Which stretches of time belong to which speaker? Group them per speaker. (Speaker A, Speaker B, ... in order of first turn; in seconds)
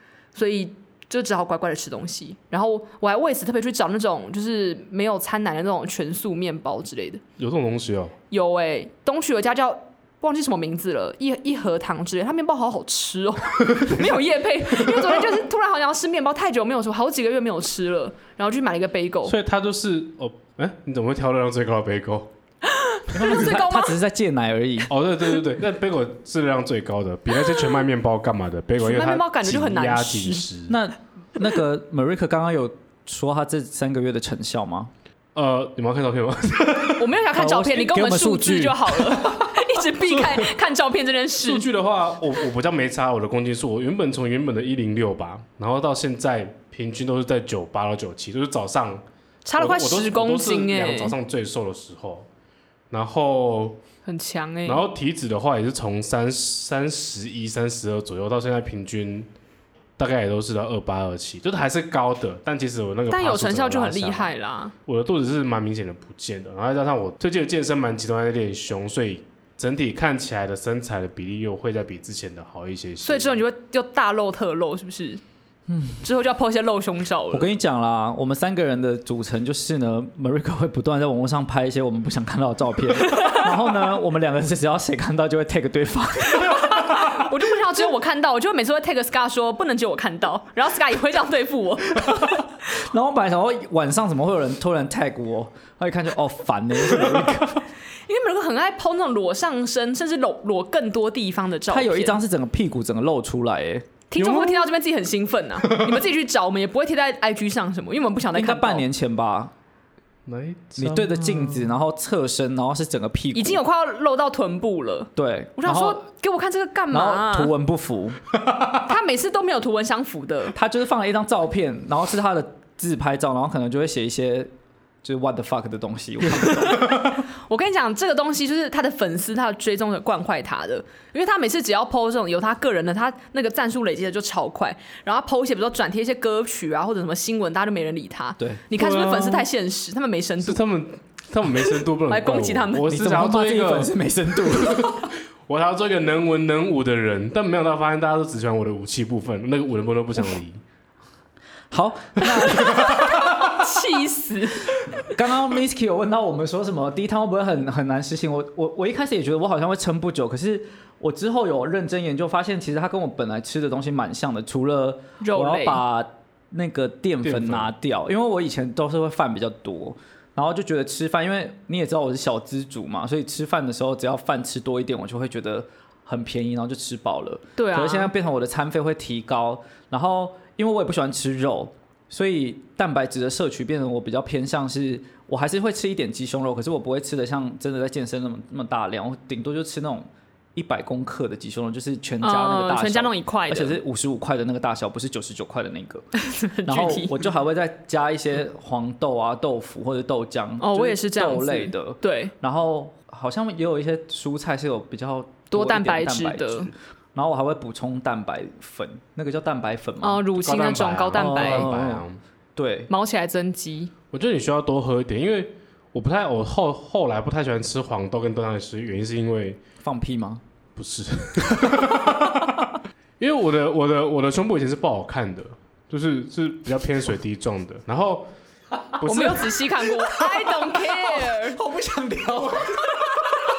Speaker A: 0.3-7.2, 8.3-19.3, 22.7-23.9, 28.8-30.4, 37.0-41.7, 49.4-51.1, 54.0-54.8, 63.1-64.7, 73.0-75.2, 76.0-77.5, 86.3-92.3, 98.1-102.2, 104.1-108.8, 113.3-117.5, 118.8-120.5, 126.5-126.9, 127.5-140.6, 141.6-142.9, 152.6-154.8, 165.2-165.8, 177.6-178.1, 192.2-193.8, 196.2-197.3, 200.6-202.3, 205.5-206.7, 210.0-211.7, 212.9-213.9, 229.0-231.6
Speaker B: 7.4-8.1, 13.7-14.2, 14.7-15.3, 19.2-22.3, 24.9-30.8, 35.3-37.1, 40.0-40.5, 41.4-49.0, 49.6-52.3, 52.9-53.8, 54.6-59.3, 60.0-64.3, 64.8-73.4, 104.2-104.7, 105.7-106.0, 110.2-111.7, 138.7-139.5, 140.4-143.9, 144.5-150.6, 152.7-153.4, 167.2-167.7, 210.4-212.2, 214.1-219.6, 220.8-228.3, 229.0-229.6
Speaker C: 23.1-24.9, 30.7-34.9, 37.3-39.5, 75.7-76.0, 77.3-87.0, 92.0-97.6, 101.7-103.9, 108.3-109.5, 110.8-113.6, 115.2-116.0, 116.9-118.2, 120.5-124.5, 125.0-126.8, 138.4-138.6, 142.9-145.1, 151.7-153.3, 154.9-196.1, 196.6-210.2, 211.1-212.0, 212.6-212.9, 219.8-220.4, 221.6-222.4, 228.9-229.2, 230.1-233.1